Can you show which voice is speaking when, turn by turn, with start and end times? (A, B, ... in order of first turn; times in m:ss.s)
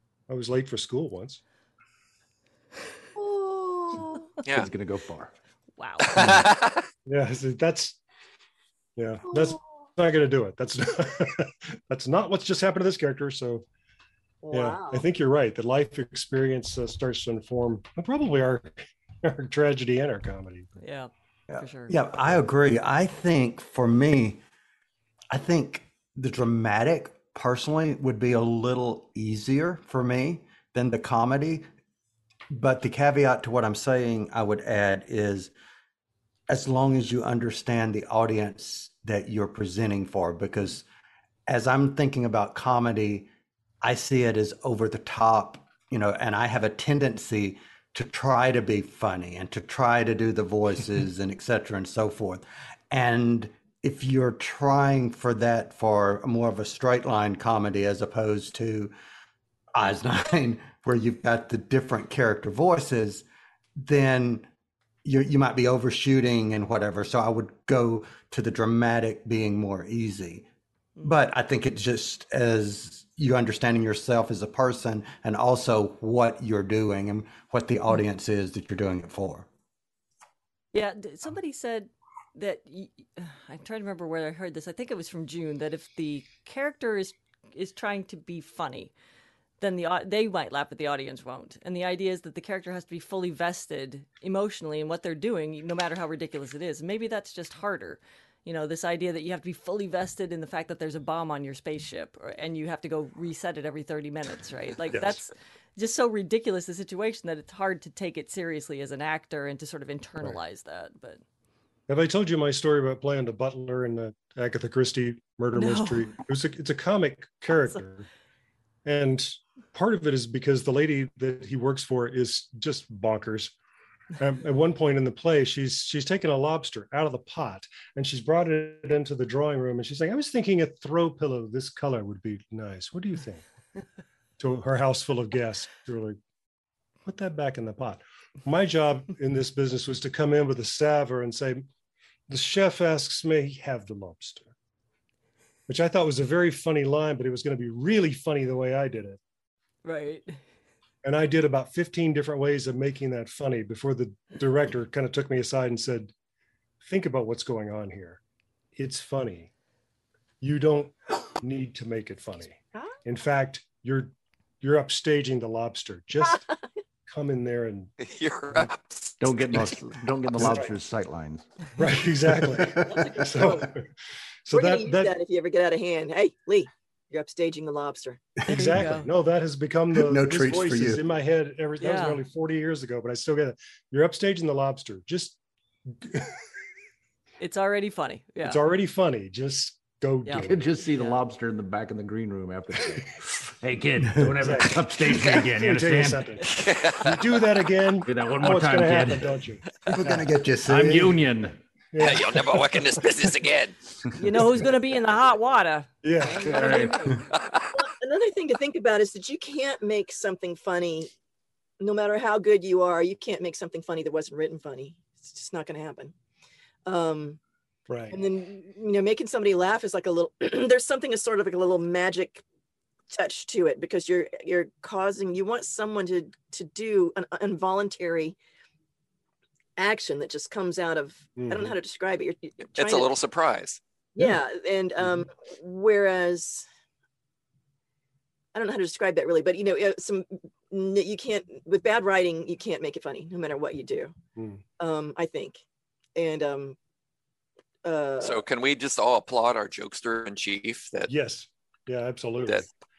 0:00.3-0:01.4 A
0:03.2-0:04.2 B
0:04.4-0:05.3 C
0:05.8-0:06.2 D
0:06.1-0:06.8 E
0:07.1-0:08.0 A
0:09.0-0:13.6 A
0:09.3-0:09.8 B
0:14.4-0:15.0 B
0:14.5-0:20.7 A
0:20.8-0:22.0 D
0:21.5-0:24.4 F
0:25.3-0:31.6 F
0:32.5-0:35.5 F
0:36.5-0:40.8 F
0:41.5-0:43.3 F
0:43.8-0:58.9 F
0:59.7-1:03.2 F
1:03.8-1:04.5 F
1:05.0-1:10.5 F
1:11.0-1:19.5 F
1:20.7-1:28.9 D
1:29.6-1:51.2 D
1:44.9-1:45.2 A
1:51.9-1:58.1 A
1:55.5-1:56.2 D
1:57.5-1:57.8 D
1:58.8-2:03.5 A
2:04.2-2:13.4 A
2:14.4-2:16.2 A
2:17.0-2:21.6 A
2:22.3-2:24.5 A
2:25.7-2:29.2 A
2:29.8-2:30.4 D
2:31.0-2:36.1 A
2:36.8-2:38.2 A
2:38.8-2:39.5 A
2:40.4-2:46.4 A
2:47.1-2:47.9 A
2:48.0-2:49.4 E
2:49.2-2:51.4 C
2:50.4-2:50.7 A
2:51.8-2:53.8 A
2:52.4-2:53.3 F
2:52.8-2:53.7 B
2:54.5-2:55.1 A
2:54.5-2:58.2 B
2:58.4-3:05.4 A
2:58.5-2:59.1 D
2:59.9-3:01.0 F
3:01.8-3:02.2 D
3:05.9-3:06.3 A
3:07.4-3:08.6 D
3:08.4-3:10.8 A
3:10.2-3:11.2 D
3:10.4-3:16.3 C
3:14.2-3:16.5 A
3:16.5-3:17.4 E
3:17.0-3:19.6 A
3:18.0-3:19.4 C
3:19.9-3:21.2 F
3:20.6-3:21.6 C
3:21.9-3:23.0 A
3:22.0-3:23.8 E
3:24.2-3:27.1 D
3:26.0-3:26.8 A
3:26.2-3:27.2 B
3:26.4-3:27.1 C
3:27.7-3:31.1 B
3:31.8-3:36.1 B
3:36.8-3:37.4 B
3:37.9-3:38.2 A
3:38.1-3:42.4 B
3:43.1-3:48.4 B
3:49.8-3:53.1 B
3:51.4-3:51.7 A
3:52.7-3:53.8 E
3:54.2-3:56.6 B
3:55.0-3:55.2 A
3:58.5-4:04.2 B
4:04.4-4:04.6 A
4:04.8-4:05.6 B
4:06.2-4:06.8 B
4:07.8-4:08.4 B
4:08.2-4:11.1 E
4:11.1-4:12.7 A